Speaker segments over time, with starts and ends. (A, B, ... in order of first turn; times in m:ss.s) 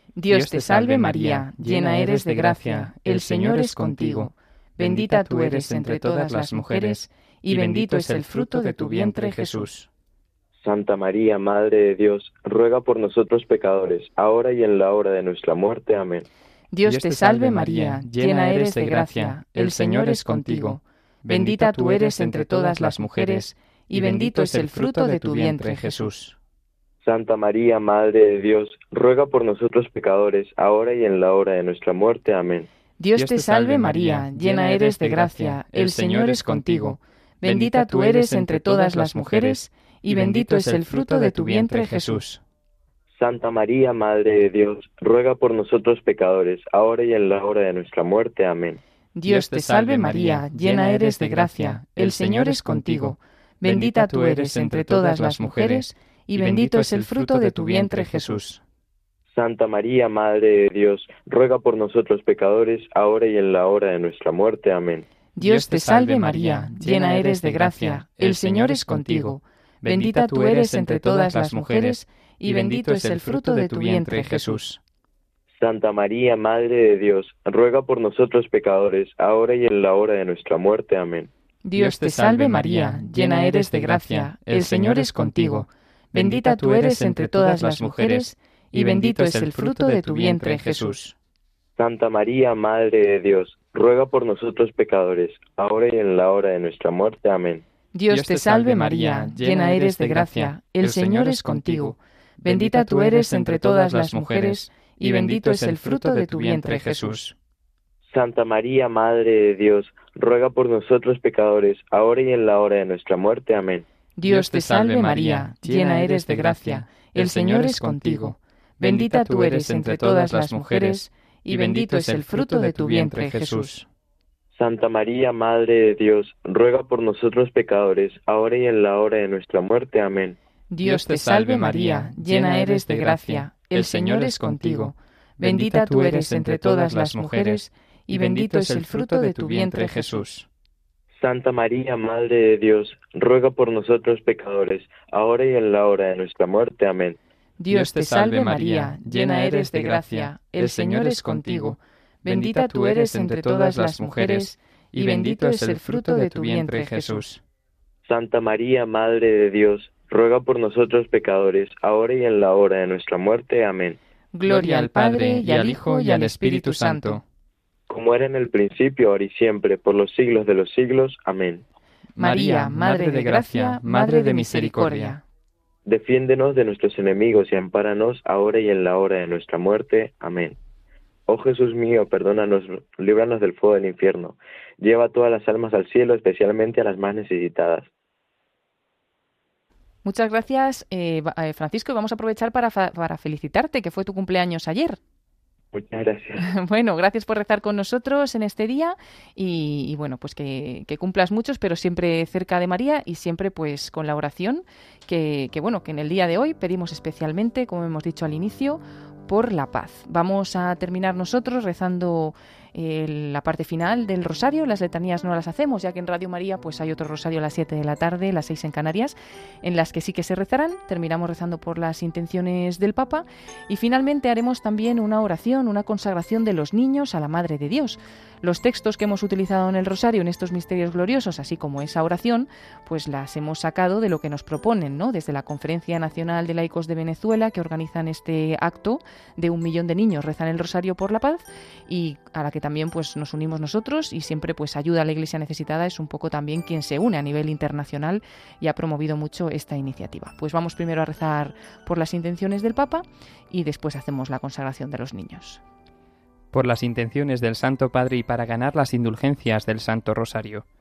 0:00.2-0:09.9 A
0:00.3-0:09.7 B
0:10.6-0:16.2 C
0:16.7-0:26.4 A
0:16.8-0:26.2 B
0:27.0-0:32.7 C
0:33.0-0:42.4 A
0:33.2-0:42.3 B
0:43.1-0:48.8 C
0:49.2-0:58.6 A
0:49.3-0:58.6 B
0:59.3-1:05.1 C
1:05.4-1:14.8 A
1:05.4-1:14.7 B
1:15.5-1:21.3 C
1:21.7-1:31.2 A
1:21.8-1:31.0 B
1:31.8-1:37.6 C
1:38.0-1:47.3 A
1:38.1-1:47.3 B
1:48.1-1:53.8 C
1:54.2-2:03.8 A
1:54.2-2:03.8 B
2:04.5-2:10.4 C
2:10.7-2:20.3 A
2:10.8-2:20.5 B
2:21.2-2:27.2 C
2:27.6-2:37.4 A
2:27.7-2:37.4 B
2:38.0-2:44.0 C
2:44.3-2:47.2 A
2:44.5-2:47.2 B
2:47.9-2:51.6 C
2:52.2-2:55.2 B
2:52.2-2:55.2 A
2:55.9-3:00.6 C
3:01.3-3:07.9 C
3:10.0-3:15.0 A
3:15.7-3:16.4 C
3:16.4-4:15.6 A
4:16.5-4:20.6 B